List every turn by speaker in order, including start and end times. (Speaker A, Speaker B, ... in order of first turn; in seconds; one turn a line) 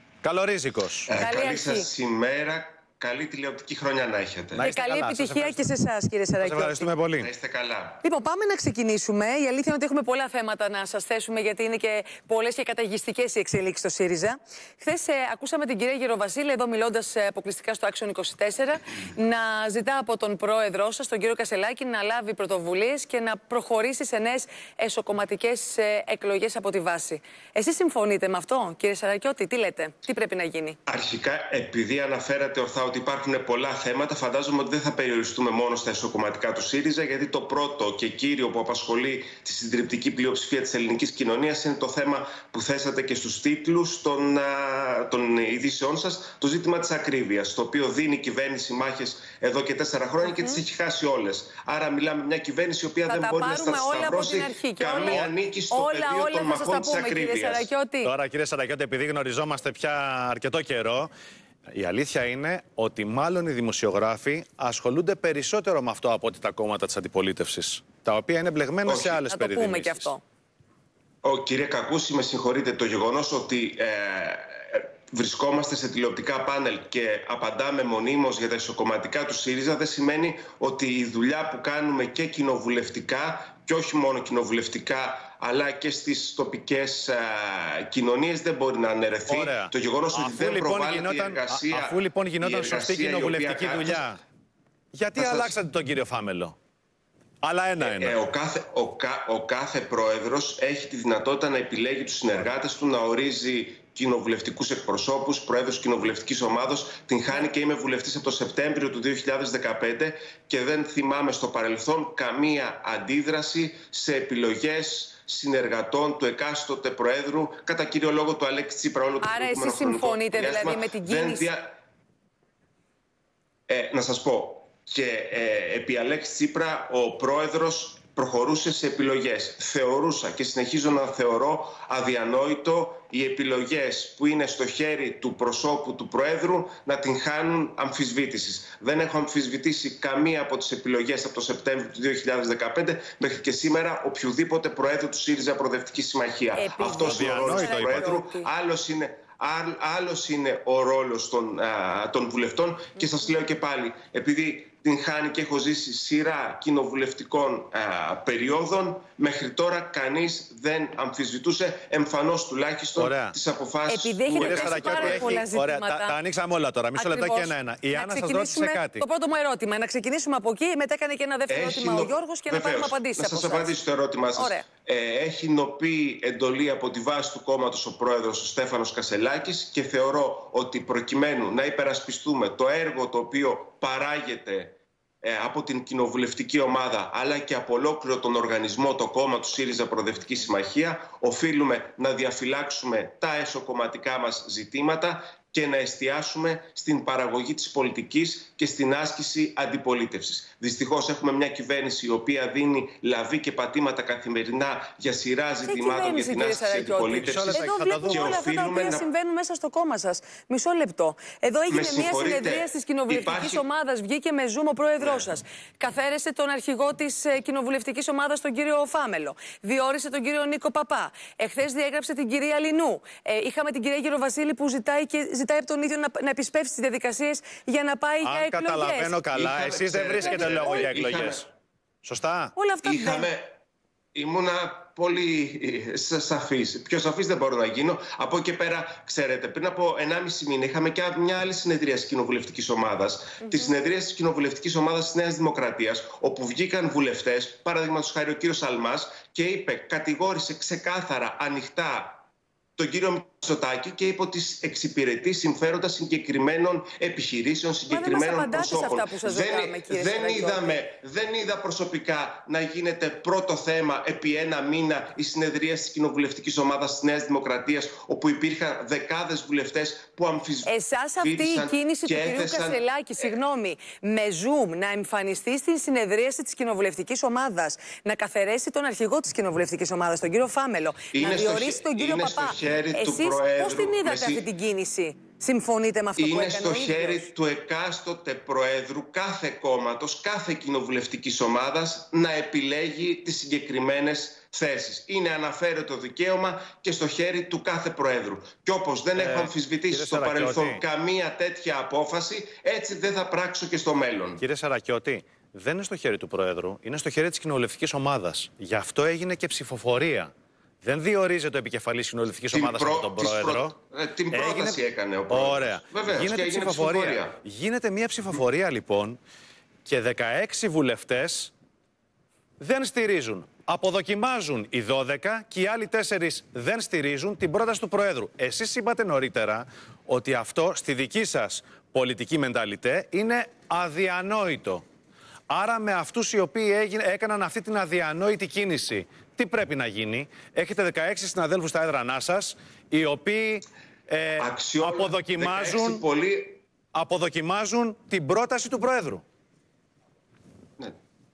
Speaker A: 0.2-1.1
Speaker B: 1.1-4.7
Speaker C: 1.2-1.9
Speaker A: 4.5-5.7
Speaker C: 4.6-6.9
Speaker A: 6.4-7.3
Speaker B: 7.2-8.0
Speaker C: 8.0-30.8
Speaker B: 30.9-57.7
Speaker C: 50.3-50.6
Speaker C: 53.1-58.1
Speaker A: 58.0-61.1
Speaker A: 61.7-70.1
Speaker B: 68.9-69.2
Speaker C: 69.3-70.2
Speaker B: 71.2-94.1
Speaker A: 89.3-94.2
Speaker A: 94.9-96.5
Speaker B: 95.2-95.5
Speaker A: 97.4-98.2
Speaker B: 97.8-121.8
Speaker C: 119.2-121.5
Speaker B: 123.7-165.4
Speaker C: 146.6-148.5
Speaker A: 146.8-148.1
Speaker A: 163.0-163.3
Speaker C: 163.9-166.2
Speaker A: 164.3-169.0
Speaker C: 166.9-173.7
Speaker B: 171.5-209.1
Speaker C: 174.3-174.6
Speaker C: 205.6-229.2
Speaker A: 207.3-208.4
Speaker B: 211.7-213.6
Speaker B: 215.0-215.2
Speaker A: 228.2-231.5
Speaker B: 229.3-231.4
Speaker C: 230.2-230.8
Speaker A: 232.0-232.5
Speaker C: 232.6-233.3
Speaker B: 232.8-233.5
Speaker B: 234.2-252.2
Speaker B: 252.8-273.4
Speaker C: 257.9-260.8
Speaker C: 270.6-287.3
Speaker B: 281.1-284.5
Speaker B: 286.2-304.4
Speaker A: 299.2-300.8
Speaker A: 304.4-310.3
Speaker A: 310.8-313.7
Speaker B: 312.5-317.4
Speaker A: 314.3-314.8
Speaker A: 315.3-319.2
Speaker A: 319.9-321.5
Speaker A: 322.6-334.8
Speaker A: 335.5-346.0
Speaker B: 344.4-346.6
Speaker A: 346.9-349.2